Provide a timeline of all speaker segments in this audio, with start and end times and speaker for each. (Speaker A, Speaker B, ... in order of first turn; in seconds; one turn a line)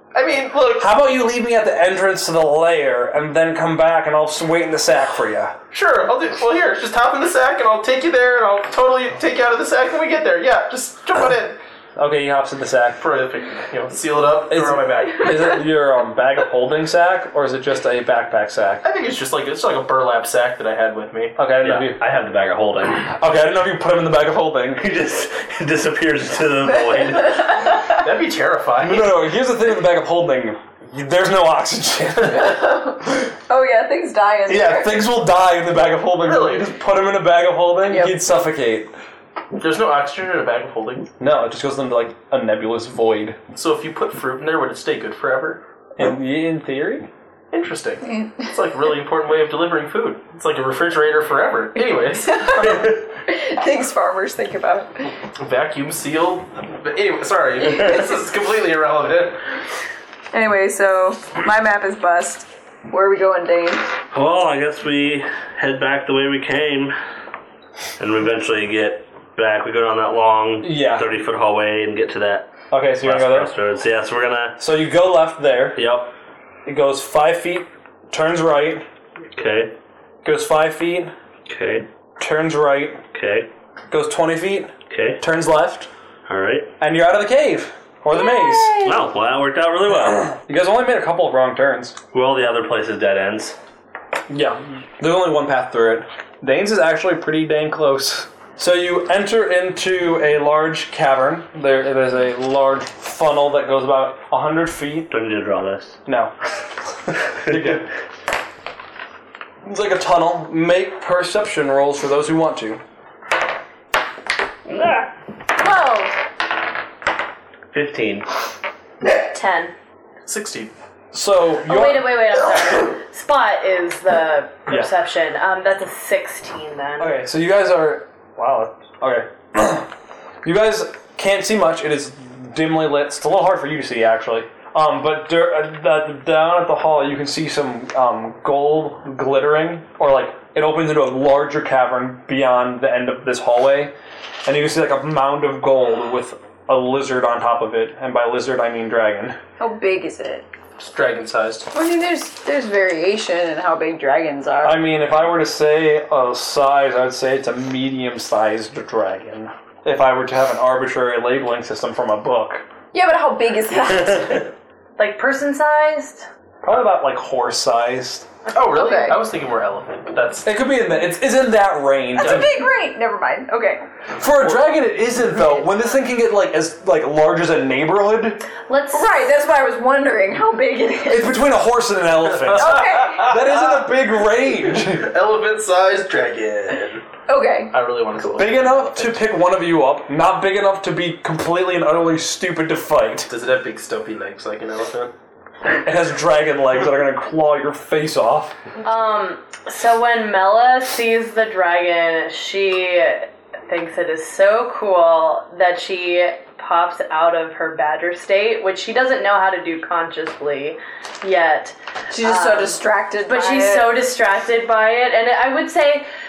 Speaker A: 0.1-0.9
Speaker B: 0.8-5.5
Speaker A: 5.7-11.6
Speaker B: 12.0-13.0
Speaker A: 13.0-15.6
Speaker B: 14.5-18.9
Speaker A: 18.8-21.4
Speaker B: 21.4-22.0
Speaker C: 21.6-23.1
Speaker B: 23.1-24.9
Speaker C: 24.8-27.8
Speaker D: 27.4-27.7
Speaker A: 27.9-29.2
Speaker B: 28.8-32.7
Speaker D: 32.4-35.0
Speaker B: 34.5-38.9
Speaker A: 36.2-36.7
Speaker D: 37.9-38.2
Speaker A: 39.6-41.1
Speaker B: 41.2-43.4
Speaker A: 43.5-45.6
Speaker B: 46.0-47.1
Speaker A: 47.5-53.0
Speaker D: 48.0-48.5
Speaker D: 52.2-55.1
Speaker A: 55.4-59.4
Speaker D: 60.3-63.9
Speaker C: 64.1-66.9
Speaker C: 68.0-72.5
Speaker B: 70.6-71.1
Speaker B: 72.7-73.5
Speaker C: 73.0-74.6
Speaker B: 74.6-75.8
Speaker C: 75.8-76.1
Speaker B: 76.7-78.8
Speaker C: 79.3-79.8
Speaker B: 80.2-81.1
Speaker C: 81.5-81.9
Speaker B: 82.2-83.0
Speaker C: 83.1-83.5
Speaker B: 83.9-85.9
Speaker C: 84.9-85.2
Speaker C: 86.3-86.7
Speaker B: 86.8-88.8
Speaker D: 88.2-88.9
Speaker C: 88.8-90.3
Speaker B: 90.3-92.0
Speaker C: 92.1-93.6
Speaker B: 94.3-105.1
Speaker C: 105.1-106.0
Speaker B: 106.1-106.3
Speaker B: 107.4-107.9
Speaker B: 109.6-112.8
Speaker C: 114.7-115.1
Speaker D: 115.6-116.2
Speaker C: 117.7-118.3
Speaker E: 119.1-119.7
Speaker A: 120.2-120.7
Speaker B: 121.1-122.2
Speaker E: 121.7-127.2
Speaker B: 127.0-129.9
Speaker B: 130.4-143.9
Speaker B: 144.4-149.4
Speaker D: 149.6-150.5
Speaker A: 150.8-151.7
Speaker D: 151.7-154.8
Speaker B: 154.6-162.7
Speaker D: 162.9-164.5
Speaker E: 165.0-166.3
Speaker B: 166.6-168.3
Speaker A: 168.5-170.5
Speaker D: 168.8-169.2
Speaker B: 170.4-172.6
Speaker D: 172.2-173.8
Speaker A: 172.2-172.5
Speaker B: 174.2-178.4
Speaker E: 178.7-179.1
Speaker D: 178.9-181.3
Speaker B: 181.1-185.1
Speaker A: 182.3-183.9
Speaker D: 182.6-183.3
Speaker A: 184.4-187.1
Speaker D: 187.3-187.7
Speaker A: 187.7-189.3
Speaker B: 188.3-193.3
Speaker A: 193.3-195.1
Speaker B: 195.8-198.6
Speaker E: 198.8-216.1
Speaker D: 212.1-213.9